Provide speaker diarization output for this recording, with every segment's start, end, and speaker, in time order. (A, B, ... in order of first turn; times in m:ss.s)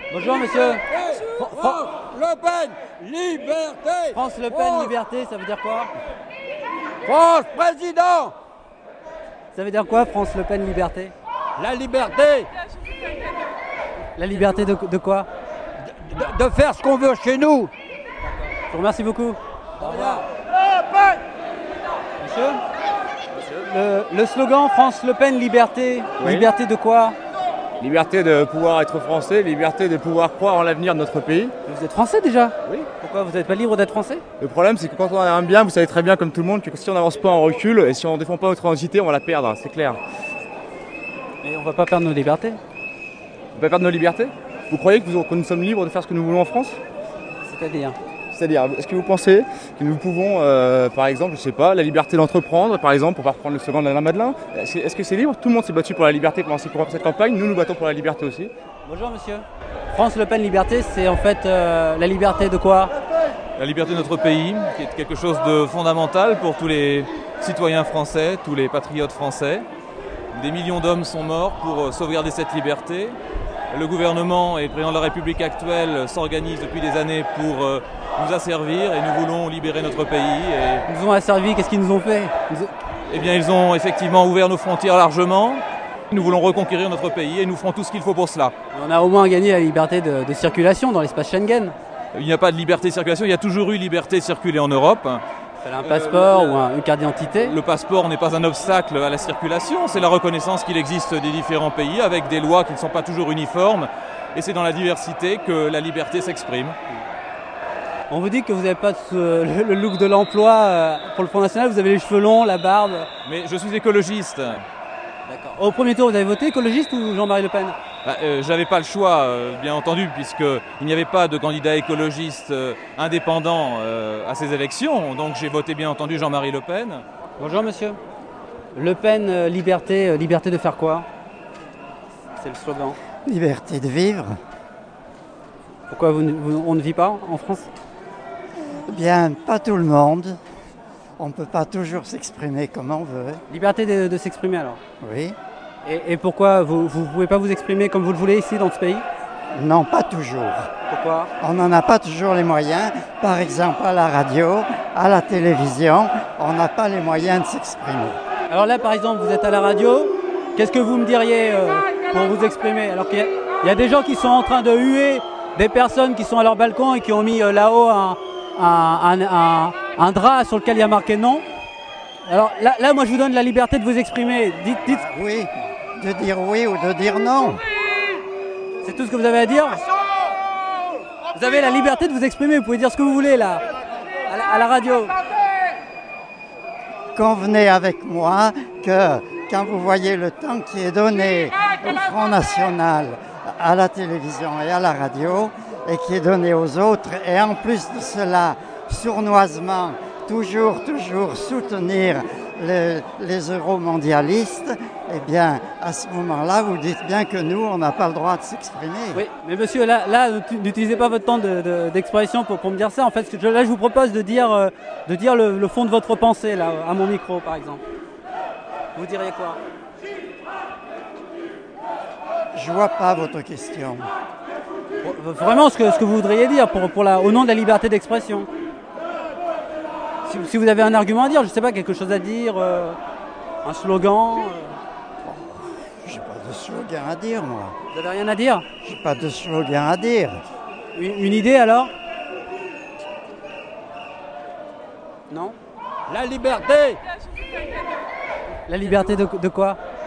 0:00.1-0:01.8 A
0:01.0-0:04.2 B
0:04.1-0:05.9 A
0:07.0-0:08.3 B
0:09.6-0:11.1 A
0:11.6-0:12.5 B
0:14.2-0:15.3 A
0:15.9-0:17.7 B
0:18.5-0:20.2 A
0:22.2-0:22.6 A
0:23.6-0:27.2 A
0:26.2-0:26.5 C
0:27.8-0:31.5 C
0:31.7-0:34.2 A
0:34.4-0:40.0 C
0:41.4-0:42.6 A
0:43.6-0:46.8 C
0:47.4-0:48.0 A
0:48.3-0:58.5 C
0:58.8-1:02.9 A
1:03.6-1:09.6 D
1:10.3-1:13.2 D
1:13.7-1:20.9 D
1:20.9-1:22.7 A
1:23.1-1:28.5 D
1:28.7-1:31.8 A
1:32.1-1:35.2 D
1:35.6-1:37.6 A
1:35.8-1:36.6 D
1:37.2-1:46.8 D
1:48.1-1:53.1 A
1:53.2-1:54.6 D
1:55.3-1:57.8 A
1:58.0-2:07.0 D
2:07.4-2:08.0 A
2:08.8-2:11.1 A
2:12.4-2:13.0 A
2:13.3-2:14.4 E
2:15.9-2:17.7 A
2:18.8-2:20.4 E
2:21.2-2:23.4 E
2:23.5-2:24.8 A
2:25.0-2:25.4 E
2:25.8-2:29.1 A
2:29.5-2:30.7 E
2:30.9-2:31.3 A
2:31.4-2:38.2 E
2:38.5-2:51.4 A
2:52.3-2:55.1 A
2:54.8-2:57.6 E
2:58.8-2:59.8 A
3:01.3-3:03.6 A
3:04.3-3:05.2 A
3:07.2-3:29.2 E
3:29.2-3:37.8 A
3:39.0-3:39.6 A
3:42.5-3:44.1 E
3:45.0-3:48.5 A
3:50.3-3:53.0 A
3:53.6-3:54.8 A
3:55.2-3:57.8 E
3:57.9-3:58.6 A
3:58.8-4:00.4 E
4:01.0-4:01.9 A
4:05.3-4:05.6 A
4:06.1-4:07.0 B
4:08.7-4:09.8 A